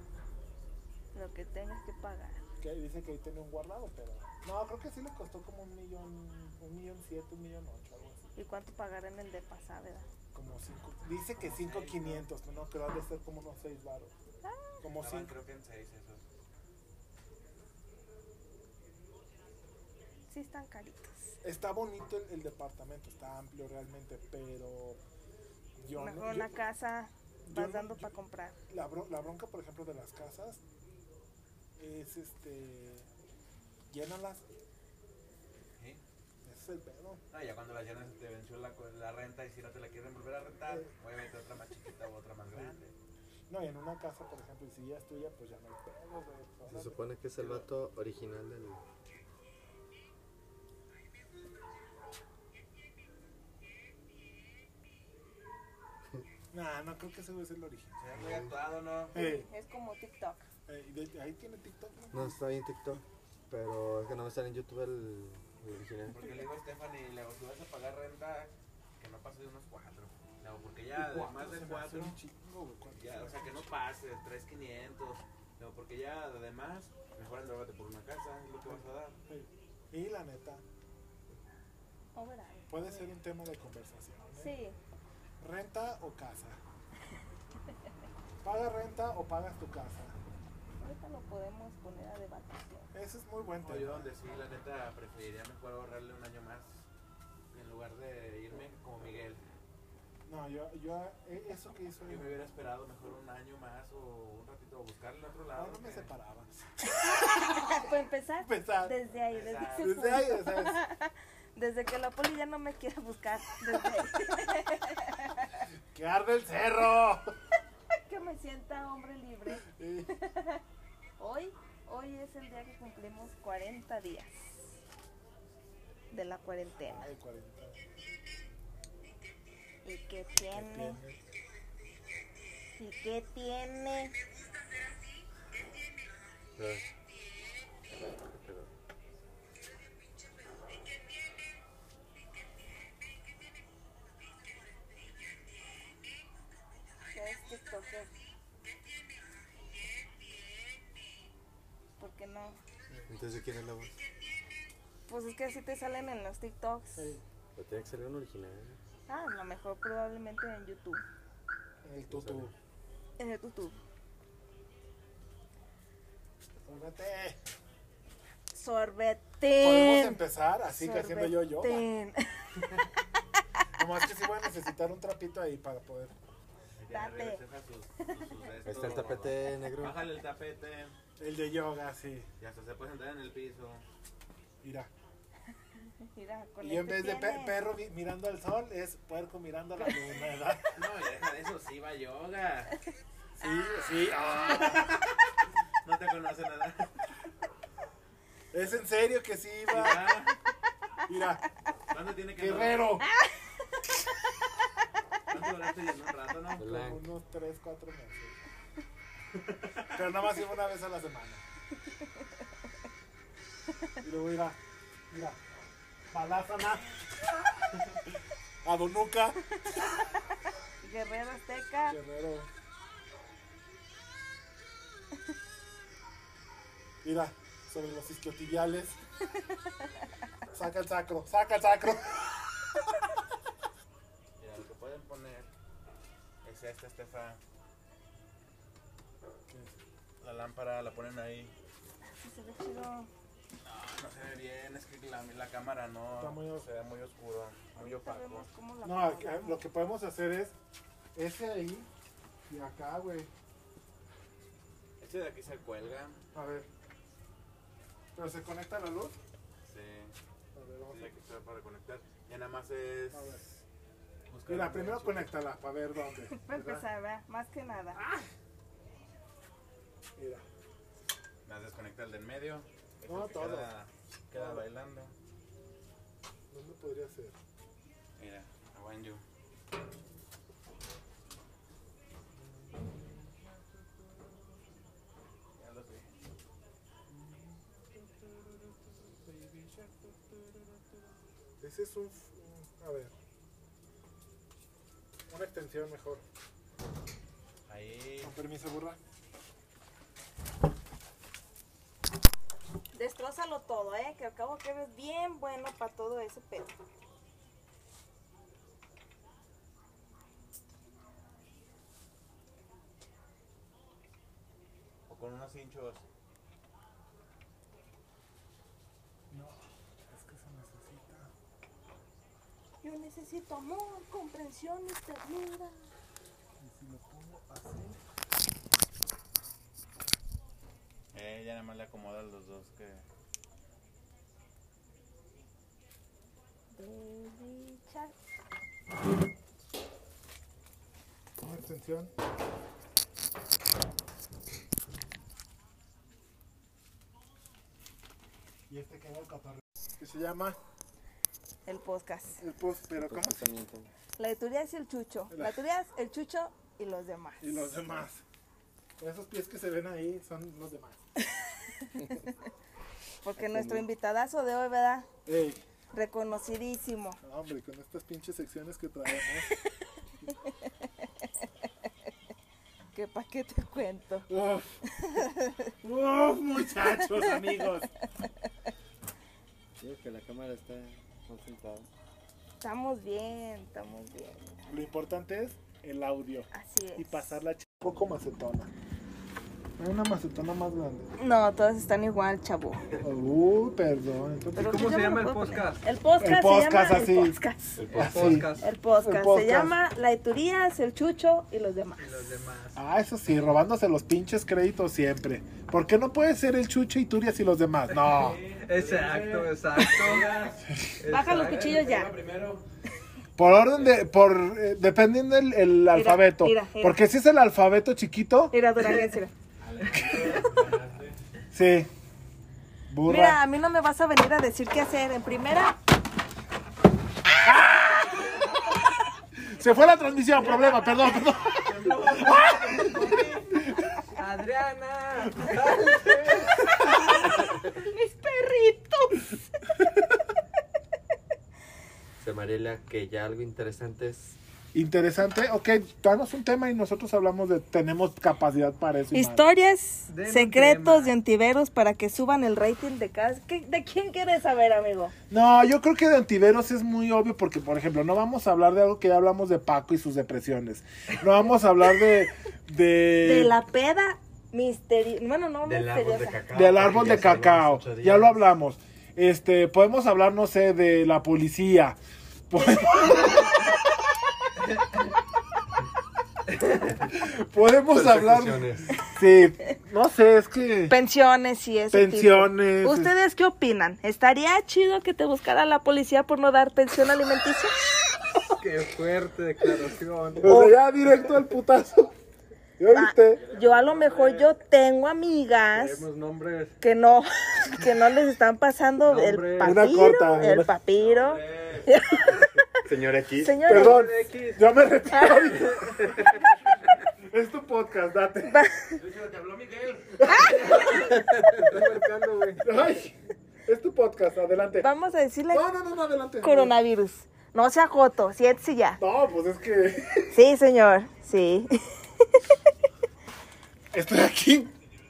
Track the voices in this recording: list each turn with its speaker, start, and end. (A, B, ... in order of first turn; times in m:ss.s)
0:01.1-0:02.4 A
0:02.6-0:08.3 B
0:08.4-0:10.1 A
0:10.3-0:14.1 B
0:11.4-0:12.2 C
0:14.4-0:14.8 A
0:14.8-0:15.3 B
0:15.0-0:16.2 C
0:20.3-0:21.4 A
0:21.4-0:25.0 B
0:25.8-0:26.6 B
0:26.0-0:28.6 A
0:27.5-0:28.1 B
0:28.7-0:30.6 B
0:31.8-0:33.1 B
0:33.9-0:34.4 B
0:36.4-0:37.2 B
0:37.3-0:42.9 C
0:43.5-0:47.0 B
0:46.7-0:48.8 D
0:47.4-0:47.7 C
0:56.5-0:58.0 B
0:58.0-0:59.1 C
0:58.2-0:58.4 D
0:59.1-0:59.5 B
0:59.1-1:00.5 A
1:00.7-1:02.4 B
1:02.1-1:06.3 D
1:06.0-1:12.2 C
1:11.0-1:13.7 B
1:13.0-1:19.2 C
1:18.7-1:20.6 B
1:22.2-1:23.0 A
1:22.7-1:24.6 B
1:24.4-1:24.8 A
1:25.4-1:26.6 B
1:28.4-1:30.2 B
1:30.8-1:32.9 A
1:32.9-1:34.1 B
1:33.6-1:36.8 C
1:37.5-1:39.4 C
1:40.3-1:42.3 B
1:42.1-1:46.1 C
1:45.5-1:47.9 B
1:47.2-1:55.4 A
1:48.4-1:49.0 B
1:49.3-1:50.0 C
1:49.8-1:50.8 B
1:55.9-1:57.4 B
1:58.1-2:00.6 A
1:59.6-2:00.1 B
2:01.2-2:04.4 A
2:06.1-2:07.1 A
2:06.8-2:07.8 B
2:09.8-2:11.0 A
2:10.3-2:11.2 B
2:12.8-2:14.1 A
2:16.6-2:16.9 D
2:18.3-2:18.7 D
2:27.1-2:28.1 A
2:32.0-2:32.6 A
2:33.1-2:33.9 D
2:35.1-2:37.0 A
2:37.0-2:37.2 B
2:37.6-2:38.8 D
2:39.1-2:41.0 A
2:41.8-2:42.5 B
2:42.1-2:42.5 D
2:43.2-2:43.8 A
2:46.6-2:47.4 B
2:48.5-2:50.2 A
2:49.6-2:51.8 B
2:50.8-2:52.5 A
2:53.8-2:56.2 B
2:56.8-3:01.0 C
2:56.9-2:57.4 A
2:58.7-3:00.0 D
3:01.2-3:02.3 B
3:02.4-3:03.8 C
3:04.6-3:04.9 B
3:06.1-3:07.6 A
3:06.6-3:10.8 B
3:10.7-3:12.7 C
3:13.4-3:15.0 B
3:13.4-3:15.0 C
3:15.8-3:16.9 C
3:18.5-3:20.2 B
3:19.7-3:20.4 C
3:21.1-3:21.4 B
3:21.9-3:22.9 C
3:22.4-3:23.1 B
3:25.3-3:26.7 C
3:26.6-3:27.0 D
3:26.6-3:28.4 B
3:29.4-3:29.9 C
3:29.9-3:31.4 B
3:34.0-3:34.6 B
3:35.1-3:35.4 B
3:36.1-3:37.8 B
3:38.6-3:39.4 B
3:40.8-3:42.0 A
3:41.9-3:42.5 B
3:47.0-3:49.0 B
3:50.5-3:52.8 B
3:54.4-3:55.5 C
3:56.4-3:57.4 C
3:59.5-3:59.8 B
4:00.2-4:01.5 C
4:02.2-4:03.1 A
4:03.6-4:08.5 C
4:06.2-4:06.7 B
4:07.8-4:09.6 A
4:08.8-4:10.6 B
4:11.2-4:11.9 B
4:12.5-4:13.3 B
4:15.0-4:16.2 C
4:16.3-4:16.7 B
4:18.2-4:19.2 B
4:19.6-4:20.1 C
4:20.6-4:21.2 B
4:20.9-4:23.4 C
4:23.1-4:23.6 B
4:24.3-4:25.3 C
4:24.5-4:26.8 B
4:26.3-4:28.0 A
4:28.0-4:28.3 B
4:30.2-4:30.4 B
4:31.5-4:35.1 C
4:33.1-4:33.7 B
4:34.3-4:34.6 B
4:36.5-4:37.4 B
4:38.2-4:39.2 C
4:42.3-4:43.4 B
4:45.6-4:46.1 C
4:47.1-4:47.6 B
4:49.0-4:50.1 B
4:51.6-4:53.1 B
4:55.3-4:56.2 B
4:57.7-4:58.3 C
4:58.2-4:59.0 B
5:02.9-5:06.8 A
5:15.1-5:16.0 C
5:19.3-5:21.3 B
5:22.8-5:25.8 A
5:26.6-5:28.0 B
5:31.1-5:33.0 C
5:36.7-5:38.1 A
5:41.4-5:42.1 B
5:48.7-5:50.6 B
5:51.7-5:52.4 A
5:52.4-5:53.5 B
5:53.0-5:53.9 D
5:54.2-5:57.7 A
5:57.4-5:58.2 B
5:59.0-6:01.0 B
6:01.8-6:02.2 A
6:03.2-6:05.1 A
6:03.4-6:03.8 D
6:05.3-6:05.6 B
6:05.9-6:07.2 A
6:07.2-6:09.5 B
6:12.9-6:14.3 A
6:14.3-6:14.8 B
6:15.0-6:15.7 A
6:15.8-6:17.9 B
6:19.8-6:21.9 D
6:22.6-6:24.6 A
6:24.7-6:28.7 B
6:26.5-6:27.4 A
6:29.8-6:31.1 B
6:31.2-6:32.9 A
6:33.0-6:34.8 B
6:34.6-6:37.8 A
6:34.6-6:35.8 E
6:36.2-6:38.5 B
6:37.8-6:38.5 D
6:37.9-6:38.7 E
6:38.6-6:42.2 A
6:39.0-6:39.7 B
6:42.0-6:42.8 E
6:42.8-6:48.4 B
6:48.0-6:52.6 C
6:48.6-6:50.4 E
6:50.7-6:51.0 B
6:51.1-6:52.1 A
6:51.3-6:51.6 E
6:53.4-6:58.5 B
6:53.7-6:54.0 C
6:55.9-6:57.0 A
6:58.5-6:59.3 A
6:59.6-7:01.2 C
7:01.5-7:01.9 B
7:02.9-7:03.4 B
7:03.1-7:05.7 A
7:07.4-7:08.4 B
7:09.4-7:12.8 B
7:11.5-7:13.5 C
7:12.8-7:13.2 E
7:14.2-7:16.5 E
7:17.8-7:19.2 A
7:22.2-7:24.4 D
7:24.7-7:29.4 B
7:29.1-7:35.1 A
7:30.1-7:31.1 E
7:35.3-7:43.6 B
7:43.2-7:46.4 A
7:45.6-7:48.4 D
7:46.5-7:52.0 B
7:52.5-7:53.8 B
7:57.1-8:01.0 B
7:57.9-7:59.0 D
8:00.9-8:07.7 A
8:01.9-8:03.1 B
8:08.3-8:10.7 E
8:10.4-8:12.1 B
8:10.5-8:10.7 A
8:12.8-8:13.4 B
8:12.9-8:16.0 A
8:13.5-8:14.5 C
8:15.7-8:16.8 E
8:16.8-8:22.6 A
8:19.0-8:19.9 E
8:19.6-8:20.7 B
8:21.0-8:22.0 C
8:22.8-8:23.7 D
8:23.4-8:24.0 A
8:23.7-8:26.2 B
8:23.7-8:24.6 E
8:25.1-8:25.4 A
8:27.3-8:28.6 B
8:28.5-8:29.0 A
8:29.0-8:31.2 C
8:30.3-8:30.6 A
8:31.6-8:32.6 E
8:31.7-8:33.2 B
8:33.7-8:34.9 B
8:34.8-8:35.6 A
8:35.5-8:36.7 B
8:36.4-8:39.0 A
8:39.0-8:40.4 B
8:40.3-8:41.7 A
8:43.9-8:44.7 B